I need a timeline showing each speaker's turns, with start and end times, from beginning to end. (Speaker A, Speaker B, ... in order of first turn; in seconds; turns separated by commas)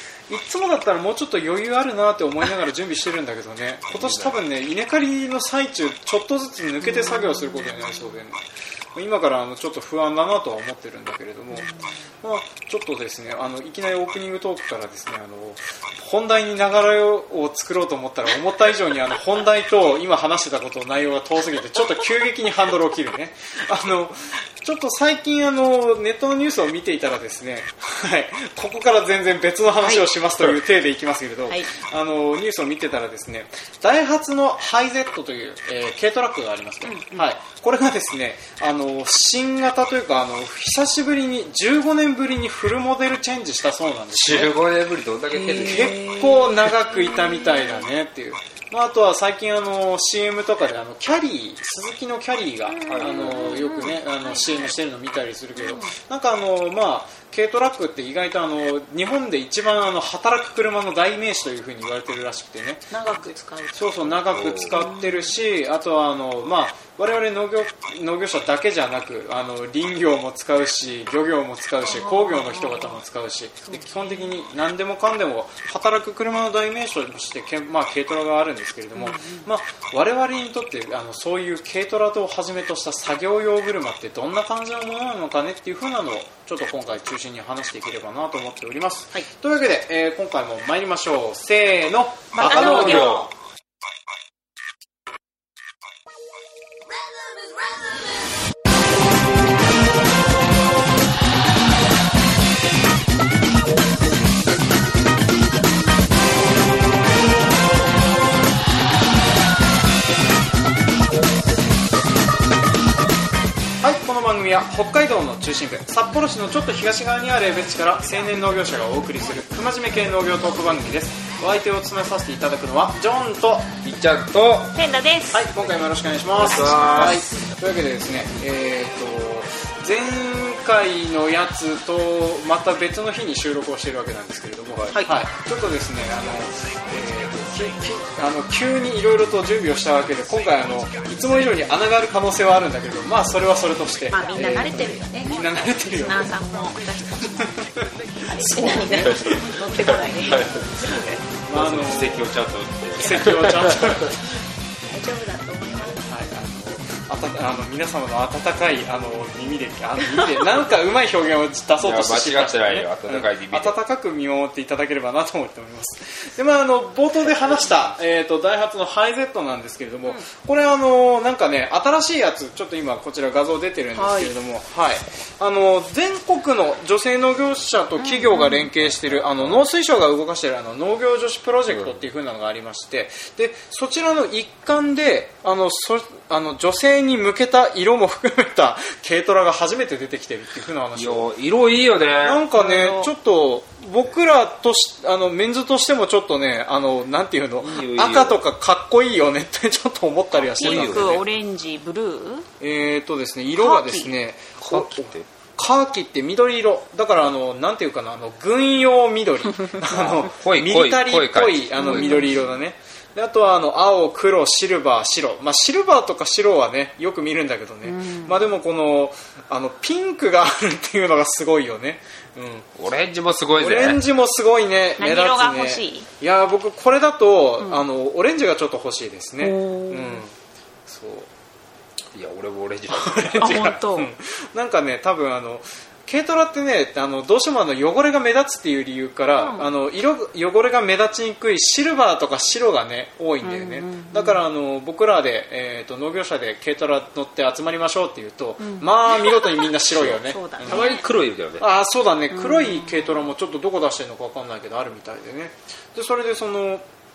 Speaker A: 0.3-8.4, Speaker B: 3.9-4.4, Speaker C: 6.8-8.2, Speaker A: 8.9-11.7, Speaker C: 11.5-12.0, Speaker A: 12.2-44.5, Speaker C: 29.8-30.1, Speaker C: 36.8-37.3, Speaker B: 44.1-46.0, Speaker C: 45.3-47.9, Speaker A: 45.4-93.3, Speaker C: 52.7-54.8, Speaker B: 52.9-53.9, Speaker C: 55.6-55.9, Speaker C: 62.9-65.4, Speaker B: 64.3-64.8, Speaker C: 71.8-73.0, Speaker C: 73.7-74.4, Speaker C: 79.0-79.5, Speaker C: 92.3-93.3, Speaker B: 92.4-93.3, Speaker A: 113.8-123.7, Speaker B: 123.8-124.8, Speaker C: 124.8-125.5, Speaker A: 125.3-146.4, Speaker B: 126.4-127.3, Speaker C: 126.6-126.9, Speaker C: 144.1-147.7, Speaker A: 147.4-149.6, Speaker C: 148.2-151.2, Speaker B: 149.0-154.1, Speaker A: 151.4-152.3, Speaker A: 153.0-154.4, Speaker C: 154.9-156.2, Speaker A: 155.9-191.3, Speaker B: 161.8-163.8, Speaker C: 174.0-174.3, Speaker C: 178.0-178.7, Speaker B: 178.8-179.7, Speaker B: 181.7-182.0, Speaker B: 190.9-192.4, Speaker A: 192.2-201.2, Speaker C: 192.6-193.1, Speaker B: 197.6-198.4, Speaker B: 200.4-201.2, Speaker C: 200.5-202.5, Speaker A: 202.6-222.7, Speaker C: 203.6-204.1, Speaker B: 204.6-205.3, Speaker B: 209.9-212.3, Speaker C: 211.8-212.6, Speaker C: 217.8-218.5, Speaker B: 222.8-224.0, Speaker A: 223.6-230.3, Speaker C: 225.0-226.1, Speaker C: 229.4-230.2, Speaker A: 230.9-231.3, Speaker B: 232.1-233.8, Speaker A: 232.9-250.9, Speaker C: 233.4-234.1, Speaker C: 239.4-239.7, Speaker C: 243.4-244.4, Speaker C: 248.6-251.1, Speaker B: 249.9-251.7, Speaker A: 251.6-256.9, Speaker C: 252.3-253.3